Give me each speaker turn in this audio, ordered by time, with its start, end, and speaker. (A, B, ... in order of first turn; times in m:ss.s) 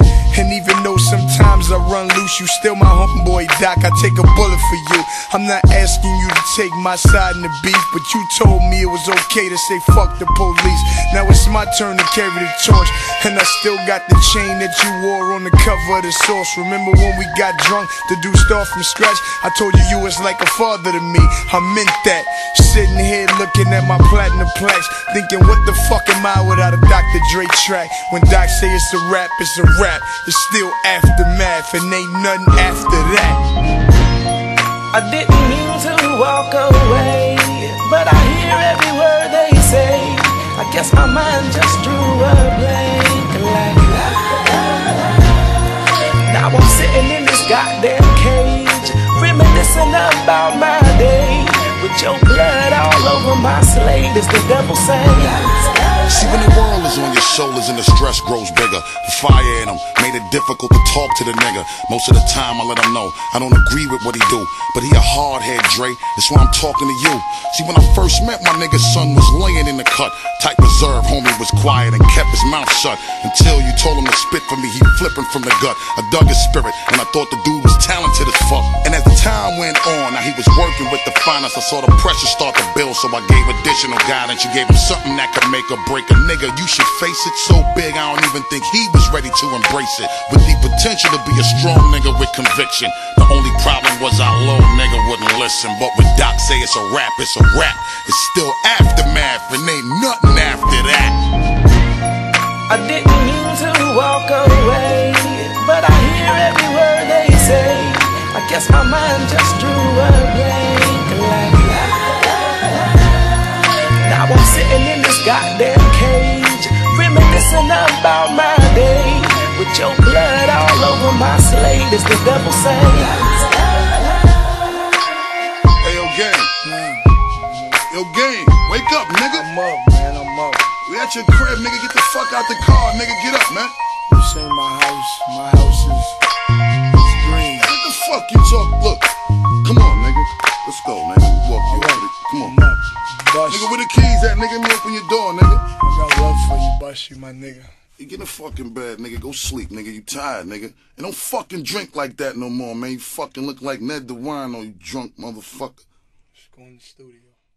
0:00.3-0:33.4 A
0:34.9-0:44.7 B
0:46.2-0:55.7 B
0:56.1-1:41.2 C
1:42.7-1:52.5 B
1:54.0-2:03.5 B
2:05.8-2:06.5 C
2:06.6-2:07.8 A
2:07.9-2:09.5 C
2:09.3-2:10.7 A
2:10.8-2:13.7 C
2:14.1-2:16.2 A
2:16.9-2:17.7 A
2:17.6-2:19.1 C
2:19.6-2:22.6 C
2:21.6-2:23.7 A
2:23.5-2:25.6 C
2:25.8-2:27.7 A
2:28.0-2:35.8 C
2:36.4-2:37.4 A